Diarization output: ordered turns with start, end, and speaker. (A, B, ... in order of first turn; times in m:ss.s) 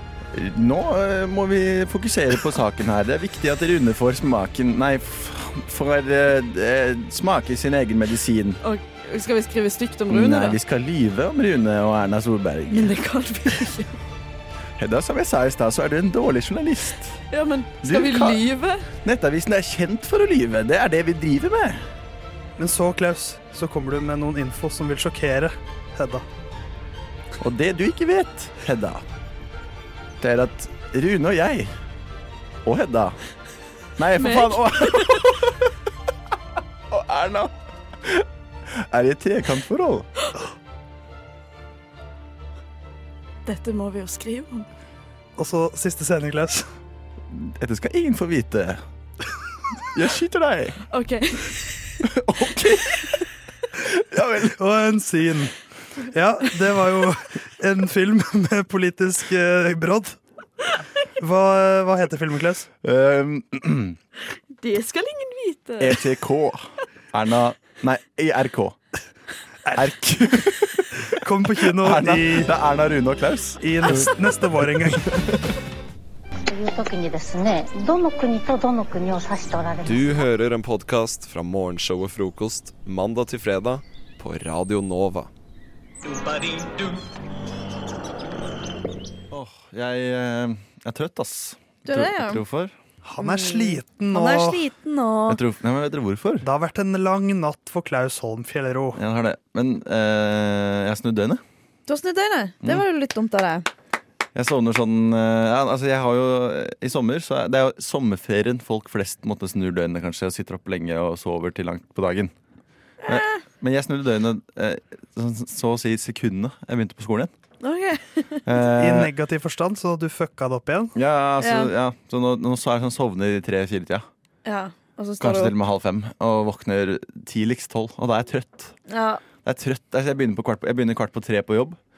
0:00.3-0:08.6 A
0:08.6-0:10.6 B
0:10.1-0:12.9 A
0:12.7-0:14.0 B
0:14.8-0:17.2 A
0:17.3-0:18.9 B
0:17.8-0:18.4 A
0:19.0-0:21.9 A
0:22.6-0:26.2 C
0:27.4-0:29.0 A
0:30.2-0:31.7 A
0:32.6-0:33.2 A
0:34.0-0:35.5 A
0:34.2-0:35.2 B
0:36.9-0:37.5 A
0:38.8-0:40.1 A
0:43.4-0:44.7 B
0:45.4-0:46.7 C
0:47.3-0:48.8 A
0:49.9-0:50.8 A
0:50.9-0:51.8 B
0:52.1-0:53.0 A
0:53.9-0:54.5 A
0:54.5-0:55.5 C
0:56.1-1:00.2 C
1:01.2-1:02.7 C
1:02.8-1:04.0 A
1:04.6-1:06.0 B
1:05.8-1:08.8 A
1:09.8-1:10.8 A
1:11.2-1:12.5 C
1:11.8-1:14.1 A
1:13.6-1:15.1 C
1:16.4-1:20.3 D
1:19.9-1:25.3 E
1:29.3-1:32.7 A
1:31.8-1:32.4 B
1:33.0-1:34.7 C
1:33.2-1:35.4 B
1:35.3-1:36.5 A
1:36.4-1:39.0 C
1:39.0-1:41.4 A
1:41.9-1:43.7 B
1:44.4-1:52.3 A
1:53.0-1:53.4 B
1:53.1-1:57.3 A
1:57.6-1:58.5 B
1:58.5-1:59.1 A
1:58.7-2:01.0 C
2:01.0-2:04.1 A
2:01.4-2:01.7 B
2:04.4-2:05.5 B
2:05.2-2:08.8 A
2:08.9-2:09.2 B
2:09.4-2:11.8 A